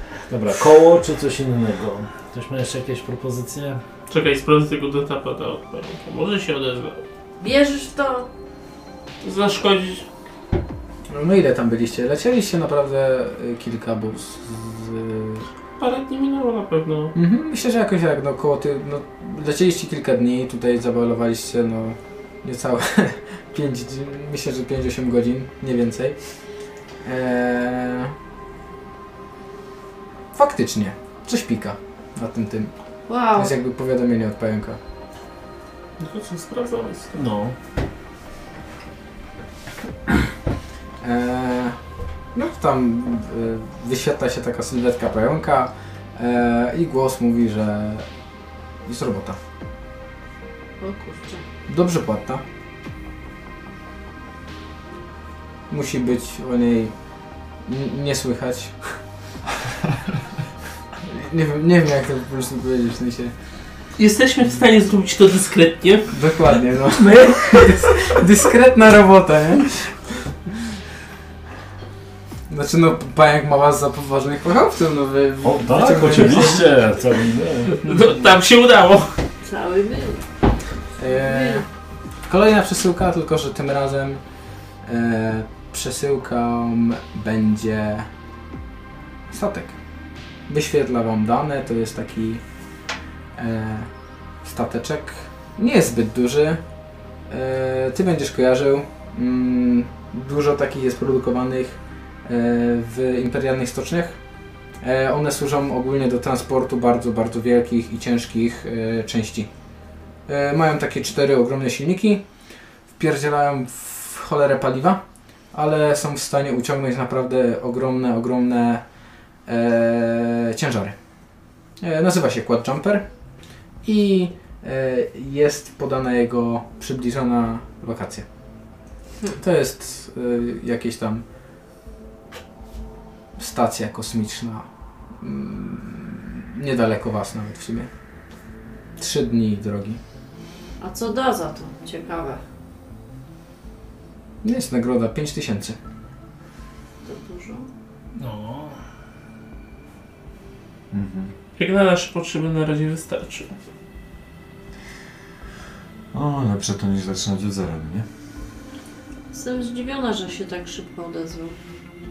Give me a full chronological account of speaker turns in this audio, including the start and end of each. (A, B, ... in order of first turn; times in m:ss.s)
0:00.3-0:03.8 A
0:04.1-0:07.0 B
0:07.4-0:08.3 C
0:09.2-0:10.0 B
0:11.1-0:15.4 D
0:15.8-0:17.1 B
0:17.1-0:26.2 D
0:27.0-0:28.1 D
0:30.3-0:32.7 D
0:33.1-0:33.5 C
0:33.3-0:34.8 D
0:36.0-0:37.1 B
0:37.1-0:37.5 A
0:41.0-0:41.8 D
0:42.3-0:48.1 D
0:48.8-0:49.4 D
0:50.8-0:51.4 C
0:51.7-0:52.4 D
0:55.7-0:56.9 D
0:57.6-0:58.8 D
1:01.0-1:03.3 D
1:04.0-1:06.1 B
1:06.1-1:10.0 D
1:07.0-1:07.9 B
1:12.5-1:16.7 D
1:15.4-1:18.0 A
1:17.7-1:19.1 B
1:19.4-1:20.2 C
1:21.0-1:21.6 D
1:21.2-1:21.6 C
1:22.3-1:24.2 D
1:24.8-1:28.1 D
1:29.3-1:29.7 D
1:30.5-1:32.4 D
1:33.4-1:33.9 D
1:34.4-1:36.6 D
1:37.3-1:44.2 D
1:44.8-1:49.5 D
1:50.3-1:52.2 D
1:53.0-1:55.0 D
1:55.5-1:58.8 D
1:59.4-2:00.9 D
2:01.8-2:03.0 D
2:03.8-2:08.2 D
2:09.4-2:11.2 D
2:13.4-2:14.6 D
2:15.2-2:17.9 D
2:19.0-2:20.0 D
2:20.8-2:22.4 C
2:24.4-2:25.8 D
2:27.0-2:27.7 C
2:28.2-2:28.8 A
2:30.9-2:31.3 E
2:31.6-2:33.5 B
2:36.1-2:38.0 E
2:39.3-2:41.5 C